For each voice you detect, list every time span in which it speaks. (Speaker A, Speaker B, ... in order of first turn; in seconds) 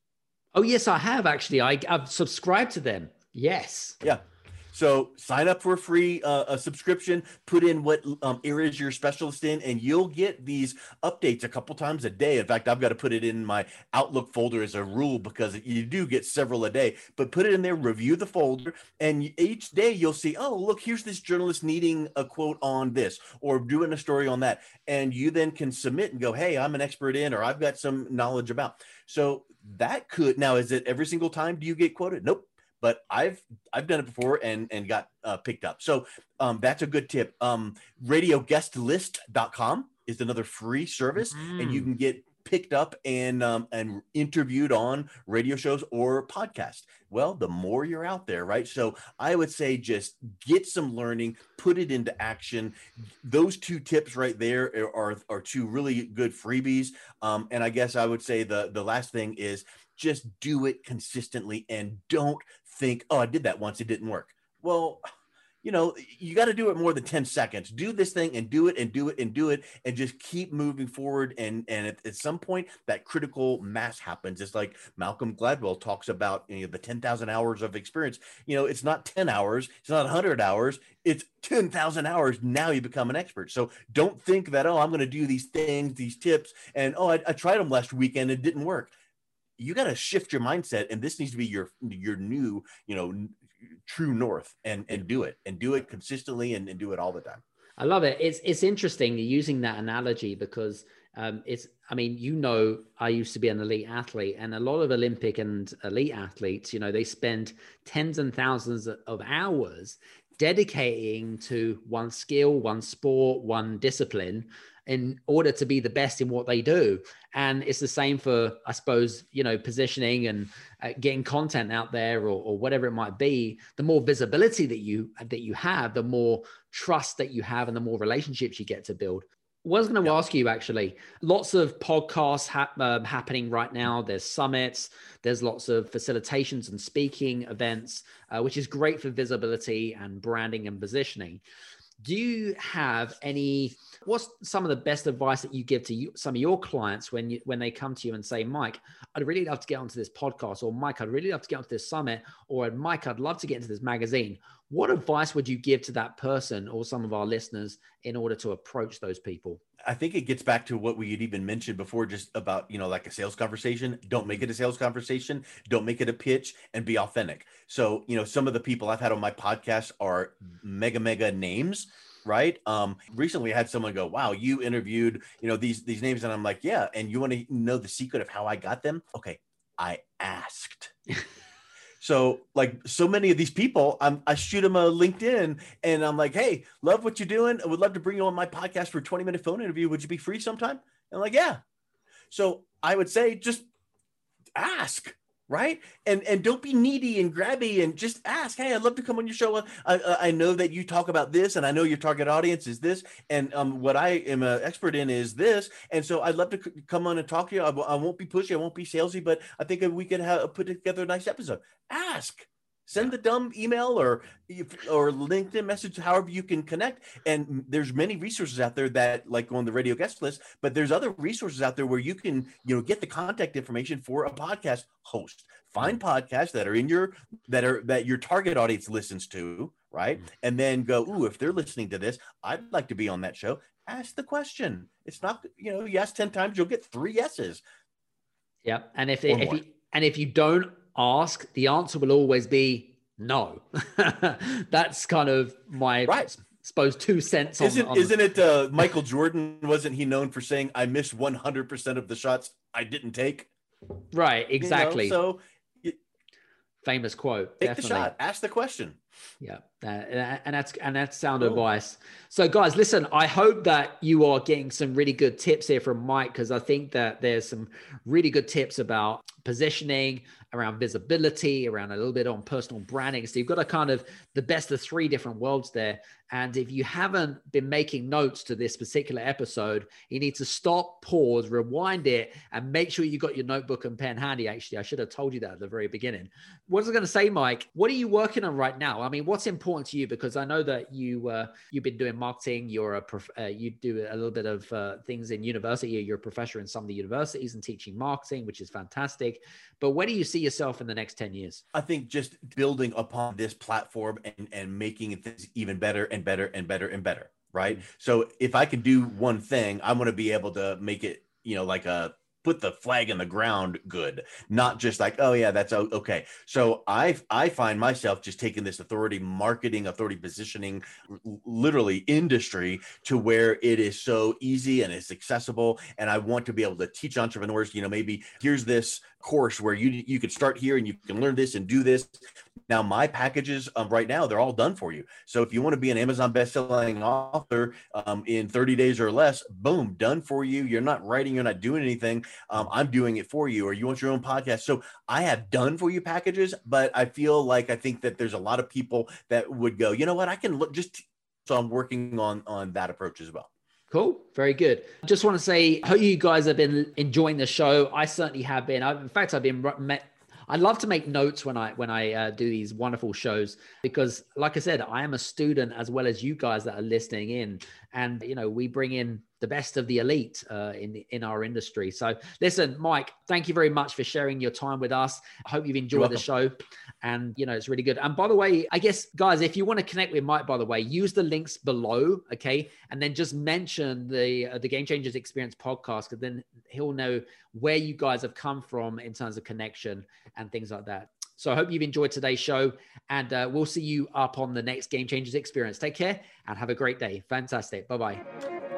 Speaker A: 0.6-4.0, 41.2-41.9, 97.8-141.4, 142.0-159.6, 238.7-248.2, 254.1-255.2, 256.8-258.1, 259.4-301.6, 353.9-398.2
Speaker B: 4.0-65.1, 65.6-88.9, 89.6-97.4, 159.8-180.9, 182.0-191.6, 192.3-193.7, 194.6-237.6, 239.3-239.6, 247.6-253.5, 254.6-256.0, 257.6-259.0, 301.7-353.5, 375.9-376.2